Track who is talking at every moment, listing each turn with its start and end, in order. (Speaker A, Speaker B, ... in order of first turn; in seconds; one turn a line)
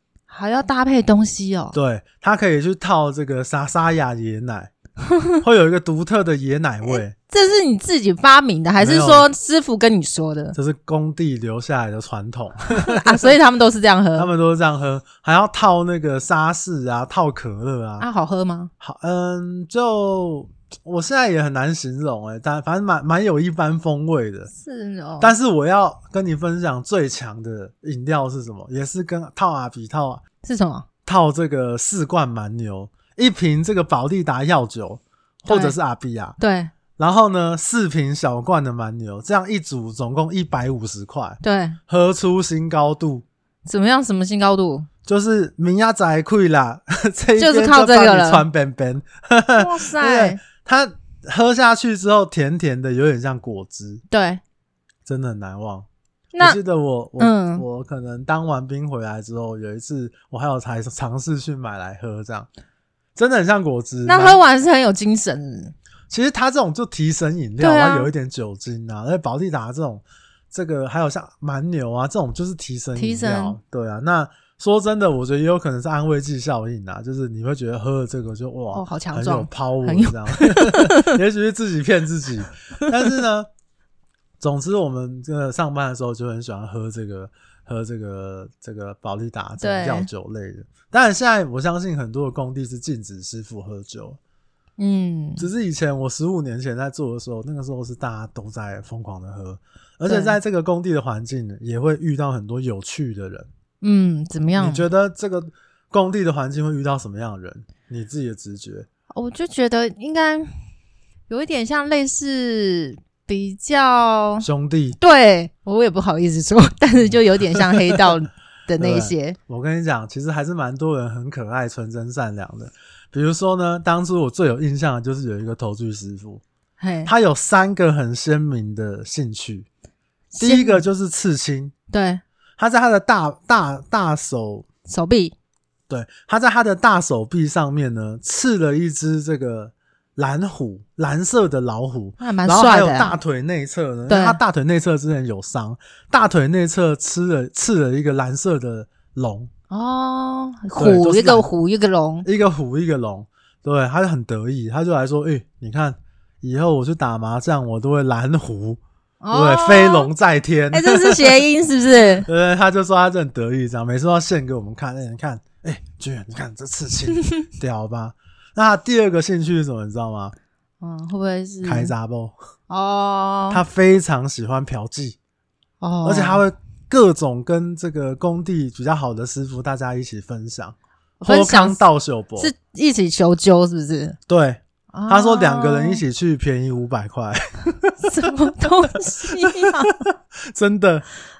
Speaker A: 0.3-1.8
Speaker B: 1.7-4.7
Speaker B: 5.4-7.2
Speaker A: 6.9-10.6
Speaker B: 8.8-9.3
Speaker B: 10.5-13.3
Speaker A: 12.8-14.3
Speaker B: 14.2-18.1
Speaker A: 18.0-18.7
Speaker B: 18.8-24.5
Speaker A: 24.5-25.4
Speaker B: 25.2-30.2
Speaker A: 30.4-30.9
Speaker B: 31.1-36.4
Speaker A: 35.5-35.8
Speaker A: 36.4-36.7
Speaker B: 37.0-43.2
Speaker A: 41.4-41.8
Speaker A: 43.7-44.9
Speaker B: 45.0-54.0
Speaker A: 47.4-48.4
Speaker A: 49.6-50.4
Speaker A: 54.1-54.4
Speaker B: 55.1-55.9
Speaker A: 56.3-56.6
Speaker B: 56.4-62.5
Speaker A: 57.2-57.6
Speaker B: 63.2-64.4
Speaker A: 64.1-65.8
Speaker B: 66.1-83.5
Speaker A: 67.6-68.1
Speaker A: 73.0-73.6
Speaker A: 78.7-81.2
Speaker A: 83.0-83.2
Speaker B: 84.4-94.2
Speaker A: 89.6-90.1
Speaker A: 94.8-95.4
Speaker B: 95.4-103.5
Speaker A: 100.1-100.4
Speaker A: 103.8-104.8
Speaker B: 104.6-108.9
Speaker A: 109.1-110.5
Speaker A: 111.3-114.5
Speaker B: 114.4-115.0
Speaker A: 115.0-119.4
Speaker B: 117.7-118.0
Speaker B: 118.8-126.4
Speaker A: 126.8-127.1
Speaker B: 127.0-129.7
Speaker A: 130.3-130.8
Speaker B: 130.4-131.7
Speaker A: 131.9-132.2
Speaker B: 132.6-134.7
Speaker A: 134.9-135.3
Speaker B: 135.9-149.5
Speaker A: 142.2-143.2
Speaker A: 144.1-144.4
Speaker A: 149.7-152.2
Speaker B: 150.8-151.5
Speaker B: 152.2-158.8
Speaker A: 159.2-160.1
Speaker B: 159.3-161.4
Speaker A: 160.7-162.3
Speaker B: 162.2-170.3
Speaker A: 170.8-171.9
Speaker B: 171.7-172.3
Speaker A: 172.7-173.6
Speaker B: 173.5-175.2
Speaker A: 175.8-176.4
Speaker B: 176.0-182.5
Speaker A: 181.2-181.8
Speaker A: 182.4-184.2
Speaker B: 184.3-188.3
Speaker A: 184.9-186.0
Speaker A: 188.0-189.9
Speaker B: 189.2-191.1